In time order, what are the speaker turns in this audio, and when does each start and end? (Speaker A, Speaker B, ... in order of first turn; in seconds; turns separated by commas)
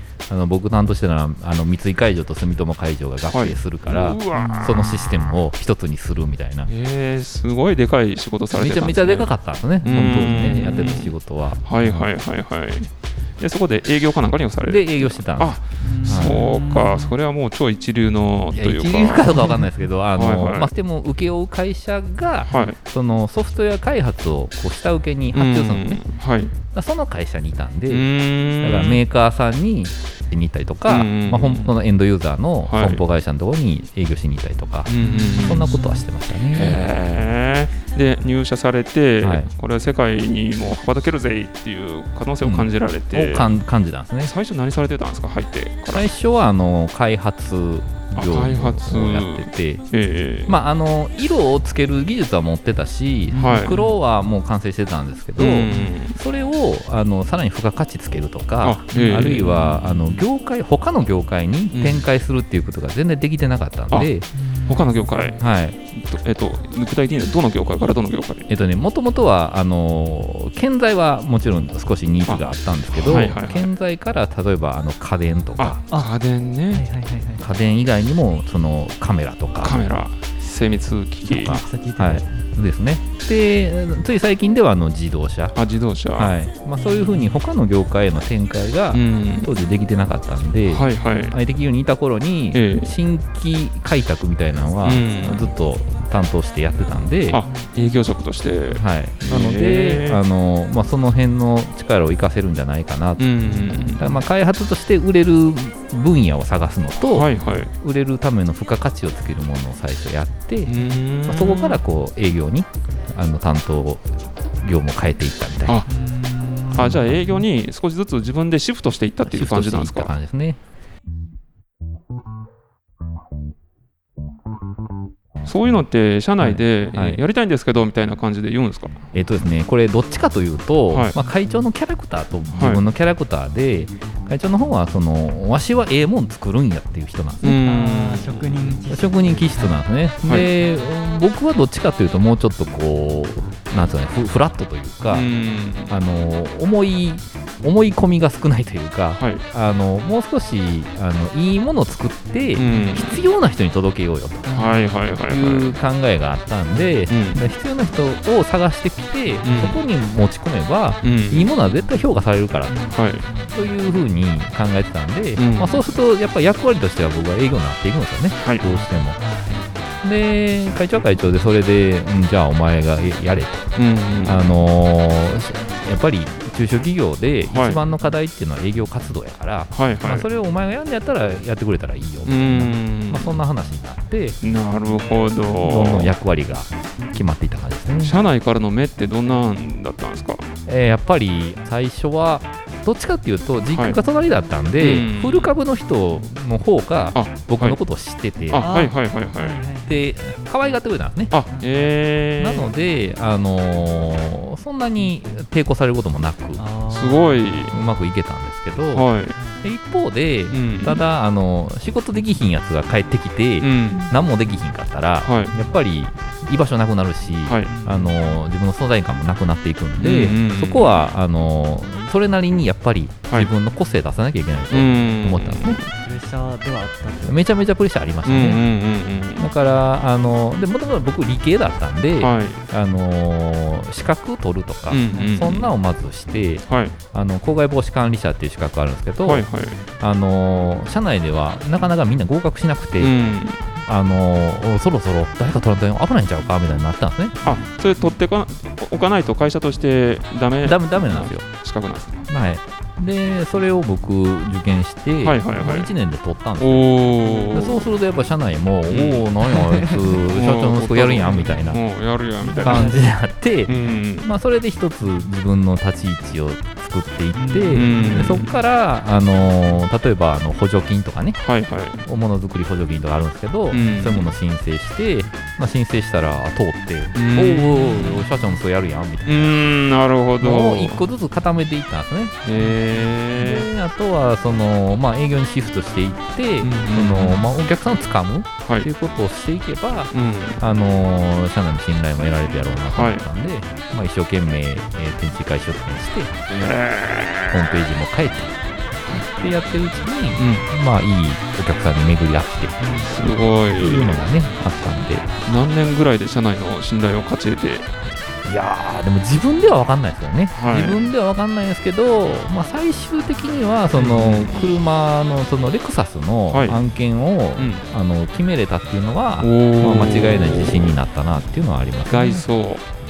Speaker A: 0.3-6.7, Speaker B: 3.3-5.4, Speaker C: 4.3-4.7, Speaker B: 6.7-19.5, Speaker A: 8.5-12.1, Speaker C: 10.2-10.9, Speaker A: 14.6-16.4, Speaker C: 15.8-17.1, Speaker A: 18.5-26.0, Speaker B: 20.1-20.7, Speaker B: 22.5-22.8, Speaker B: 25.3-26.5, Speaker A: 26.7-36.8, Speaker B: 27.9-29.0, Speaker B: 30.9-31.7, Speaker B: 32.6-33.0, Speaker B: 34.9-35.7, Speaker C: 35.0-36.0, Speaker B: 36.5-43.5, Speaker A: 39.2-39.5, Speaker A: 42.4-44.3, Speaker B: 44.2-46.1, Speaker A: 45.9-49.9, Speaker B: 48.1-50.6, Speaker A: 50.5-64.3, Speaker C: 53.3-54.0, Speaker B: 53.3-53.8, Speaker B: 55.4-56.2, Speaker B: 58.6-60.2, Speaker C: 58.9-59.3, Speaker B: 61.7-62.1, Speaker C: 64.4-65.0, Speaker B: 64.7-65.4, Speaker A: 65.4-65.8, Speaker B: 65.9-68.5, Speaker A: 68.5-75.8, Speaker B: 72.3-73.7, Speaker B: 75.6-76.8, Speaker C: 76.7-77.4, Speaker A: 77.4-79.8, Speaker B: 79.6-81.6, Speaker A: 81.3-85.6, Speaker C: 81.3-82.3, Speaker B: 85.5-86.4, Speaker A: 86.2-97.4, Speaker C: 86.8-87.3, Speaker B: 88.9-89.5, Speaker B: 90.7-91.4, Speaker B: 92.5-93.0, Speaker B: 94.8-95.5, Speaker B: 97.3-100.2, Speaker C: 97.5-97.7, Speaker A: 98.8-103.3, Speaker B: 103.2-104.0, Speaker A: 103.8-107.3, Speaker B: 107.0-107.7, Speaker A: 107.8-114.1, Speaker B: 110.7-111.8, Speaker A: 114.6-115.8, Speaker B: 115.7-115.9, Speaker C: 115.9-117.3, Speaker B: 116.7-120.1, Speaker A: 119.2-120.6, Speaker B: 125.5-128.9, Speaker A: 126.4-127.2, Speaker A: 129.1-137.4, Speaker B: 130.9-131.2, Speaker B: 132.5-132.8, Speaker B: 137.4-138.8, Speaker C: 137.4-139.8, Speaker A: 138.9-145.3, Speaker B: 140.2-140.5, Speaker B: 145.1-146.0, Speaker A: 145.9-154.5, Speaker B: 149.2-149.4, Speaker B: 152.6-153.2, Speaker C: 154.4-154.8, Speaker B: 154.5-155.8, Speaker A: 155.2-162.9, Speaker B: 157.1-157.4, Speaker B: 159.4-159.8, Speaker B: 161.0-161.5, Speaker C: 162.7-163.8, Speaker B: 162.9-163.3, Speaker A: 163.5-169.2, Speaker B: 165.4-165.8, Speaker B: 168.4-168.7, Speaker C: 168.6-169.9, Speaker A: 170.0-184.4, Speaker B: 173.8-174.4, Speaker B: 177.5-177.8, Speaker B: 179.7-180.3, Speaker B: 182.3-183.4, Speaker B: 184.4-186.1, Speaker A: 185.6-188.2, Speaker B: 188.0-190.5, Speaker A: 190.7-198.7, Speaker B: 193.7-194.0, Speaker B: 194.8-195.6, Speaker B: 197.2-197.8, Speaker B: 198.5-199.6, Speaker C: 198.6-200.0, Speaker A: 199.8-201.4, Speaker B: 201.3-202.7, Speaker C: 201.5-201.8, Speaker A: 202.4-206.6, Speaker C: 206.6-207.8, Speaker B: 206.9-207.7, Speaker A: 207.7-209.1, Speaker B: 208.9-209.4, Speaker C: 209.4-209.6, Speaker A: 209.6-225.8, Speaker B: 210.5-211.0, Speaker B: 213.6-214.1, Speaker B: 215.2-215.5, Speaker B: 217.4-217.8, Speaker C: 217.7-218.2, Speaker B: 220.0-220.9, Speaker B: 224.7-225.9, Speaker C: 225.9-227.4, Speaker A: 227.2-228.6, Speaker B: 228.2-229.5, Speaker A: 229.4-239.5, Speaker B: 232.1-232.6, Speaker B: 234.9-235.8, Speaker C: 235.1-235.5, Speaker B: 236.7-237.0, Speaker B: 239.2-239.8, Speaker A: 240.0-243.2, Speaker B: 243.0-243.6, Speaker A: 243.9-247.4, Speaker B: 247.4-252.3, Speaker A: 250.6-251.5, Speaker A: 252.3-256.9, Speaker B: 255.2-255.9, Speaker B: 256.6-257.9, Speaker A: 257.5-261.8, Speaker B: 258.9-259.4, Speaker B: 260.3-262.9, Speaker C: 262.4-263.2, Speaker A: 262.6-271.4, Speaker B: 263.7-264.3, Speaker C: 267.3-268.4, Speaker B: 267.7-268.5, Speaker B: 271.4-272.0, Speaker A: 272.1-279.5, Speaker B: 273.7-274.3, Speaker B: 277.1-278.3, Speaker B: 279.2-281.1, Speaker A: 280.4-282.4, Speaker B: 282.4-283.7, Speaker A: 283.3-296.3, Speaker B: 286.6-287.5, Speaker B: 288.6-288.9, Speaker B: 290.1-290.6, Speaker B: 292.9-293.2, Speaker B: 296.5-297.9, Speaker A: 297.5-298.6, Speaker A: 299.1-305.3, Speaker B: 300.4-300.7, Speaker C: 302.8-303.1, Speaker B: 303.0-304.3, Speaker B: 305.5-307.9, Speaker A: 308.4-322.5, Speaker B: 310.5-311.1, Speaker B: 313.9-314.7, Speaker B: 316.5-316.8, Speaker B: 317.6-317.9, Speaker B: 319.4-321.0, Speaker B: 322.1-322.9